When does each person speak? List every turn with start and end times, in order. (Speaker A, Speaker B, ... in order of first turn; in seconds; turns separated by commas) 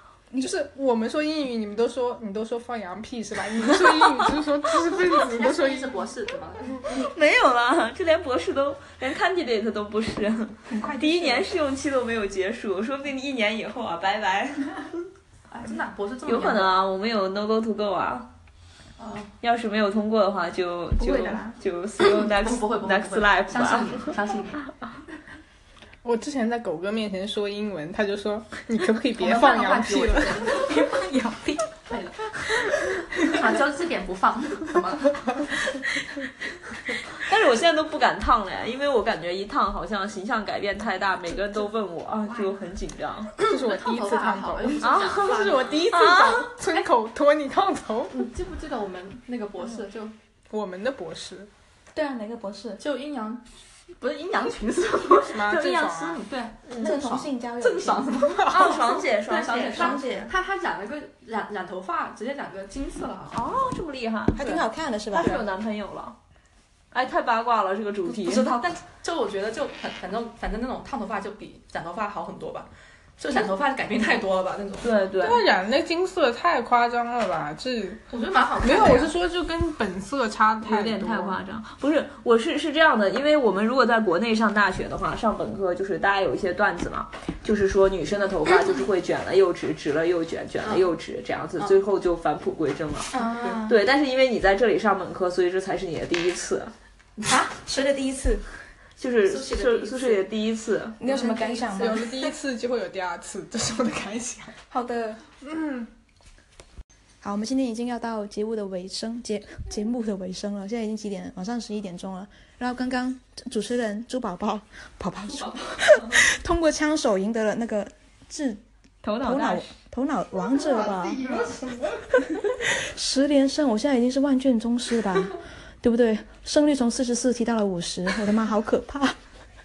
Speaker A: 0.4-6.1, Speaker B: 5.1-6.7, Speaker C: 6.8-14.9, Speaker D: 10.7-11.5, Speaker B: 15.5-16.8, Speaker C: 16.2-18.3, Speaker B: 19.0-19.3, Speaker C: 19.4-24.1, Speaker D: 21.0-21.6, Speaker B: 22.0-24.6, Speaker A: 26.0-30.4, Speaker B: 29.2-35.5, Speaker C: 37.1-43.3, Speaker B: 43.4-45.8, Speaker A: 43.4-48.1, Speaker C: 44.8-46.5, Speaker B: 48.1-50.1, Speaker A: 50.5-51.5, Speaker D: 51.9-52.8, Speaker B: 52.8-53.4, Speaker B: 54.0-63.7, Speaker A: 55.1-56.2, Speaker C: 55.5-55.9, Speaker D: 56.8-58.1, Speaker A: 58.4-58.8, Speaker C: 58.5-60.2, Speaker D: 59.3-60.3, Speaker C: 63.3-64.5, Speaker D: 64.3-65.4, Speaker C: 65.1-66.2, Speaker C: 66.9-68.6, Speaker B: 68.0-72.7, Speaker B: 73.2-74.9, Speaker C: 74.8-75.4, Speaker A: 75.2-78.0, Speaker B: 78.1-79.2, Speaker A: 78.6-81.4, Speaker C: 80.6-93.1, Speaker B: 90.6-91.0, Speaker D: 93.1-93.8, Speaker B: 93.1-93.6, Speaker C: 93.6-96.7, Speaker D: 97.3-98.4, Speaker C: 99.0-101.0, Speaker B: 99.2-100.3, Speaker D: 101.0-102.1, Speaker B: 101.0-102.1, Speaker A: 101.2-104.5, Speaker D: 104.7-105.2, Speaker A: 105.4-105.9, Speaker D: 107.2-118.6, Speaker C: 119.0-119.7, Speaker D: 119.2-121.2, Speaker A: 120.5-122.2, Speaker D: 122.2-129.2